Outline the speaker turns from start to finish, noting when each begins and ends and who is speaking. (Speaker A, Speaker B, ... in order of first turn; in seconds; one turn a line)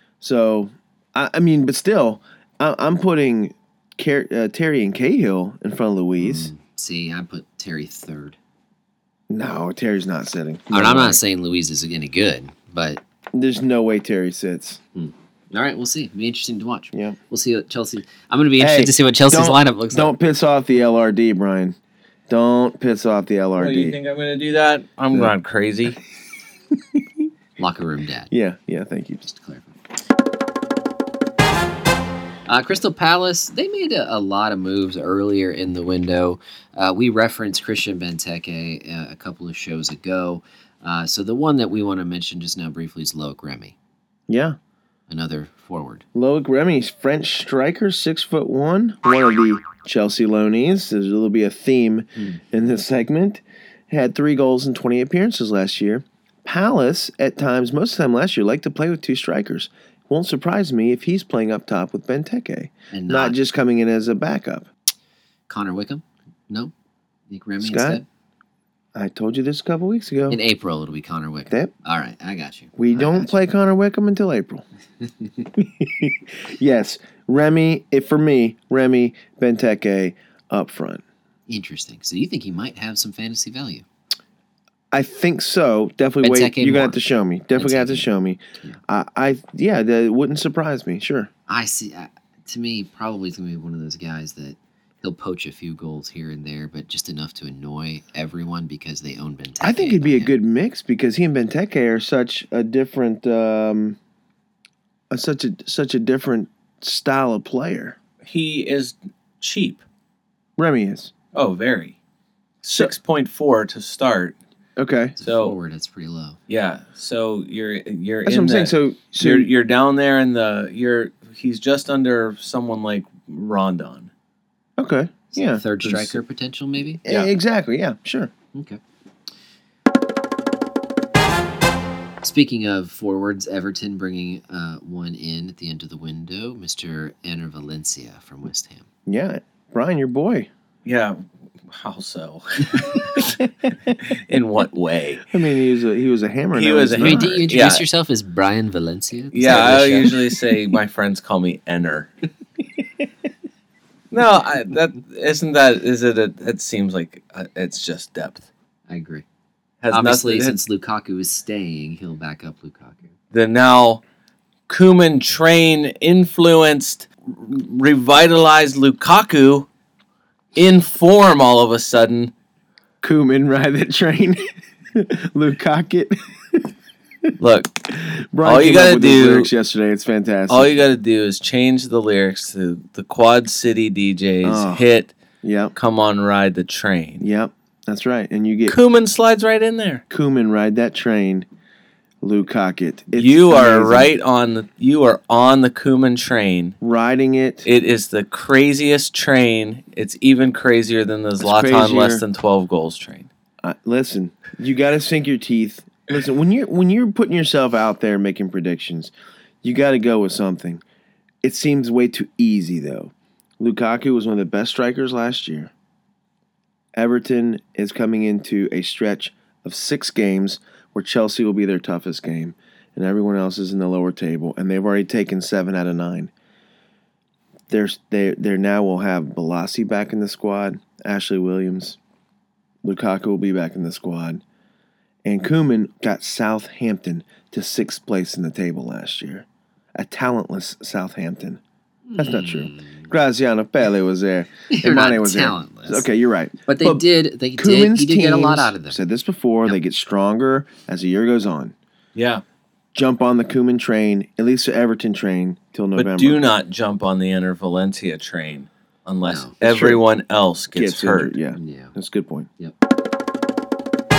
Speaker A: 0.2-6.5
Speaker B: 6.2-8.4
Speaker A: 9.3-11.2
Speaker B: 10.7-13.0
Speaker A: 13.3-14.8
Speaker B: 14.9-20.1
Speaker A: 18.6-21.8
Speaker A: 22.3-24.0
Speaker C: 23.6-26.0
Speaker A: 26.9-27.3
Speaker B: 27.6-28.3
Speaker A: 28.3-29.2
Speaker B: 29.2-29.7
Speaker B: 32.5-43.8
Speaker A: 44.3-44.6
Speaker B: 45.1-46.0
Speaker A: 46.1-64.7
Speaker B: 62.9-63.4
Speaker B: 65.5-66.7
Speaker B: 67.3-68.0
Speaker A: 67.6-68.0
Speaker A: 69.0-70.4
Speaker B: 70.3-73.4
Speaker A: 72.8-74.6
Speaker A: 75.6-81.0
Speaker B: 81.5-83.8
Speaker A: 84.9-91.3
Speaker B: 86.2-87.0
Speaker B: 87.5-88.8
Speaker B: 91.5-100.3
Speaker A: 99.6-104.0
Speaker A: 105.1-108.0
Speaker C: 108.2-109.8
Speaker A: 110.6-111.1
Speaker C: 111.3-112.0
Speaker C: 112.6-114.4
Speaker A: 114.8-115.2
Speaker B: 115.2-116.4
Speaker C: 115.2-115.5
Speaker C: 116.5-124.1
Speaker A: 118.3-119.5
Speaker A: 124.8-125.6
Speaker B: 125.3-127.0
Speaker C: 125.8-126.2
Speaker A: 127.0-128.3
Speaker C: 127.1-127.3
Speaker B: 128.5-128.8
Speaker B: 132.2-138.9
Speaker A: 139.1-140.5
Speaker C: 140.8-145.3
Speaker A: 145.3-147.4
Speaker C: 146.5-147.8
Speaker B: 147.0-150.2
Speaker C: 149.3-152.1
Speaker C: 154.1-158.5
Speaker B: 158.9-159.2
Speaker C: 159.8-160.6
Speaker B: 159.9-163.1
Speaker C: 163.3-164.0
Speaker C: 164.7-169.7
Speaker C: 170.6-172.3
Speaker A: 173.0-176.7
Speaker C: 177.4-177.9
Speaker A: 177.9-180.8
Speaker C: 178.4-179.5
Speaker C: 180.5-185.1
Speaker A: 184.4-184.8
Speaker A: 185.4-185.7
Speaker C: 185.8-187.3
Speaker A: 187.2-188.8
Speaker C: 188.7-190.0
Speaker A: 190.1-191.5
Speaker A: 192.2-194.1
Speaker C: 193.1-196.8
Speaker A: 196.8-197.7
Speaker C: 197.7-203.3
Speaker A: 201.4-202.2
Speaker A: 203.6-209.1
Speaker A: 209.6-210.8
Speaker A: 211.4-215.7
Speaker A: 217.0-226.3
Speaker A: 227.7-232.0
Speaker A: 232.8-234.4
Speaker A: 235.2-241.6
Speaker B: 242.1-243.1
Speaker A: 242.2-247.1
Speaker B: 244.7-246.1
Speaker B: 246.7-249.0
Speaker A: 247.6-251.7
Speaker C: 252.2-252.4
Speaker A: 252.9-256.4
Speaker C: 256.0-261.4
Speaker B: 259.2-259.6
Speaker A: 259.6-260.0
Speaker A: 260.8-262.5
Speaker B: 261.6-261.9